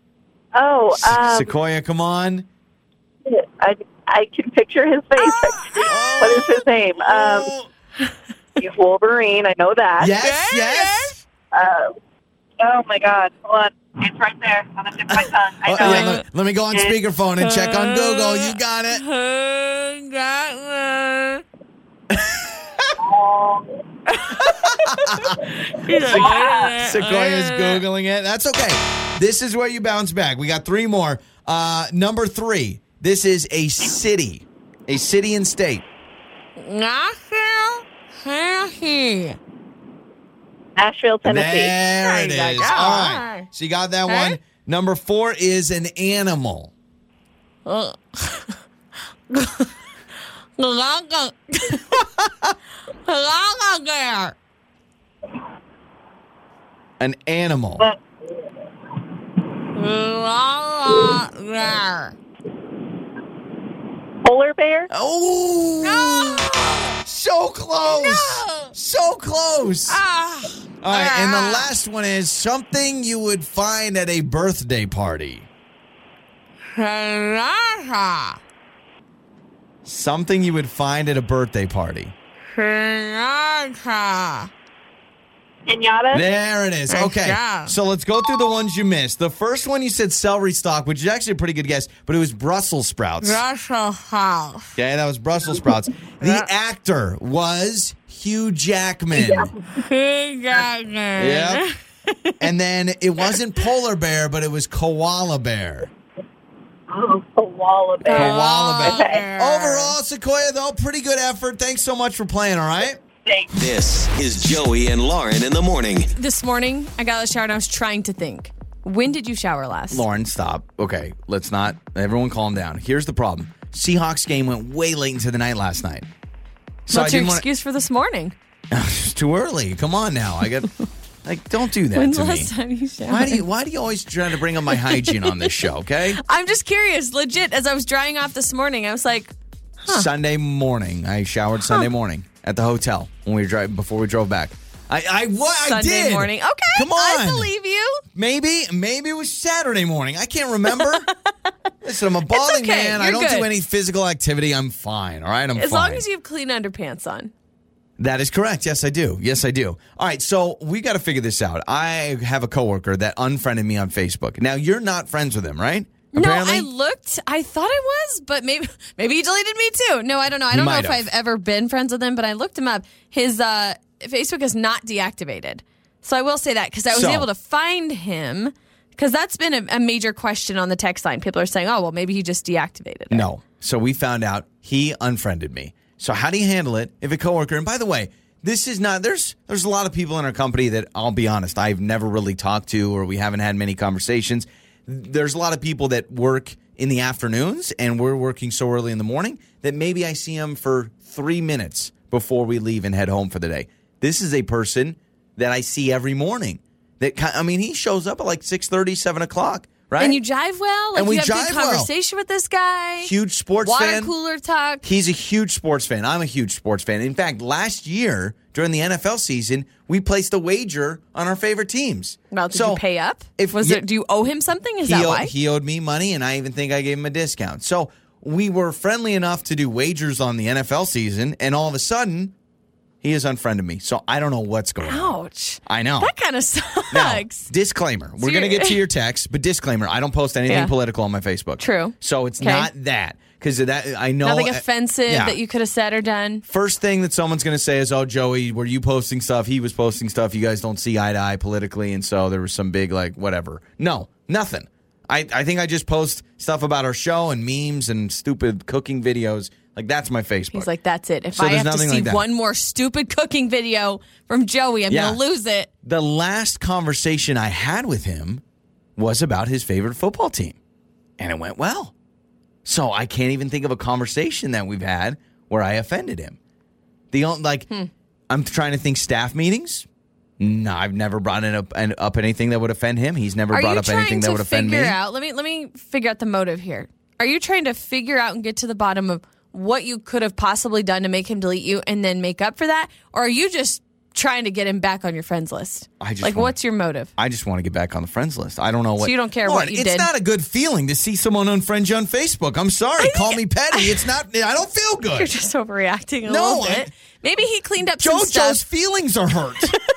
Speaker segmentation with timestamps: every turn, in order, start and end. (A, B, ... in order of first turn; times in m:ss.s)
0:00.5-0:01.5 A
0:00.9-0:02.5 B
0:03.2-0:07.5 A
0:05.2-0:06.2 C
0:05.8-0:07.7 B
0:08.6-0:10.1 A
0:10.0-0:11.2 B
0:10.2-0:11.2 C
0:11.5-0:11.9 A
0:12.6-0:17.0 A
0:15.6-0:19.0 B
0:15.8-0:16.2 C
0:17.4-0:21.4 C
0:22.1-0:22.9 B
0:23.0-0:23.8 A
0:24.2-0:25.2 C
0:24.3-0:25.4 B
0:25.7-0:26.8 A
0:25.7-0:27.8 C
0:26.0-0:35.8 B
0:36.6-0:39.4 C
0:40.8-0:41.8 A
0:41.2-0:46.7 B
0:42.0-0:43.5 C
0:42.3-0:42.6 A
0:44.1-0:44.4 C
0:47.6-0:48.6 C
0:49.3-0:49.7 C
0:50.6-0:52.1 C
0:53.0-0:54.3 C
0:57.0-0:57.9 B
0:59.7-1:02.1 C
1:04.2-1:04.9 A
1:04.9-1:06.5 B
1:05.8-1:07.0 C
1:07.0-1:10.0 B
1:07.8-1:08.7 C
1:09.9-1:11.7 C
1:10.8-1:15.5 B
1:16.7-1:18.4 C
1:19.8-1:22.1 B
1:22.5-1:24.5 C
1:25.7-1:26.2 A
1:26.1-1:33.4 B
1:26.9-1:27.7 C
1:33.2-1:34.7 C
1:34.7-1:39.5 B
1:36.2-1:36.5 C
1:39.1-1:39.6 A
1:39.7-1:42.4 C
1:41.2-1:41.6 B
1:42.4-1:45.9 B
1:46.9-1:49.2 A
1:48.0-1:50.0 C
1:48.1-1:53.0 B
1:53.5-1:56.1 D
1:56.2-2:00.0 C
1:59.9-2:06.1 B
2:06.9-2:07.4 B
2:06.9-2:08.3 C
2:08.7-2:10.7 B
2:11.2-2:12.5 B
2:11.9-2:13.4 C
2:13.1-2:16.2 B
2:14.7-2:15.5 C
2:16.2-2:19.3 C
2:19.8-2:27.5 B
2:21.6-2:21.9 C
2:25.6-2:28.0 C
2:28.1-2:31.1 B
2:30.7-2:31.0 C
2:31.8-2:36.0 B
2:32.3-2:33.5 C
2:35.5-2:37.3 C
2:38.0-2:46.7 B
2:46.1-3:03.3 C
2:50.5-2:51.1 B
2:56.9-2:57.3 B
3:03.1-3:30.2 B
3:30.0-3:33.1 C
3:30.9-3:31.9 B
3:33.0-3:34.1 B
3:33.6-3:34.8 C
3:34.8-3:42.8 B
3:42.3-3:45.3 C
3:43.4-3:43.8 B
3:44.8-3:52.3 B
3:53.0-3:56.1 B
3:54.8-3:57.5 C
3:56.9-4:05.4 B
3:58.2-3:58.8 C
4:00.5-4:00.7 C
4:01.6-4:02.7 C
4:04.2-4:06.4 C
4:06.5-4:20.7 B
4:20.5-4:25.7 C
4:21.3-4:22.2 B
4:24.9-4:25.2 B
4:25.8-4:28.4 B
4:29.0-4:30.6 B
4:31.2-4:31.9 B
4:32.6-4:36.4 B
4:37.1-4:37.7 B
4:38.3-4:39.8 B
4:40.4-4:45.0 B
4:43.5-4:57.1 C
4:56.0-4:56.5 B
4:57.2-5:05.3 B
4:59.0-5:00.1 C
5:03.0-5:04.0 C
5:05.1-5:08.6 C
5:06.2-5:06.9 B
5:08.0-5:09.8 B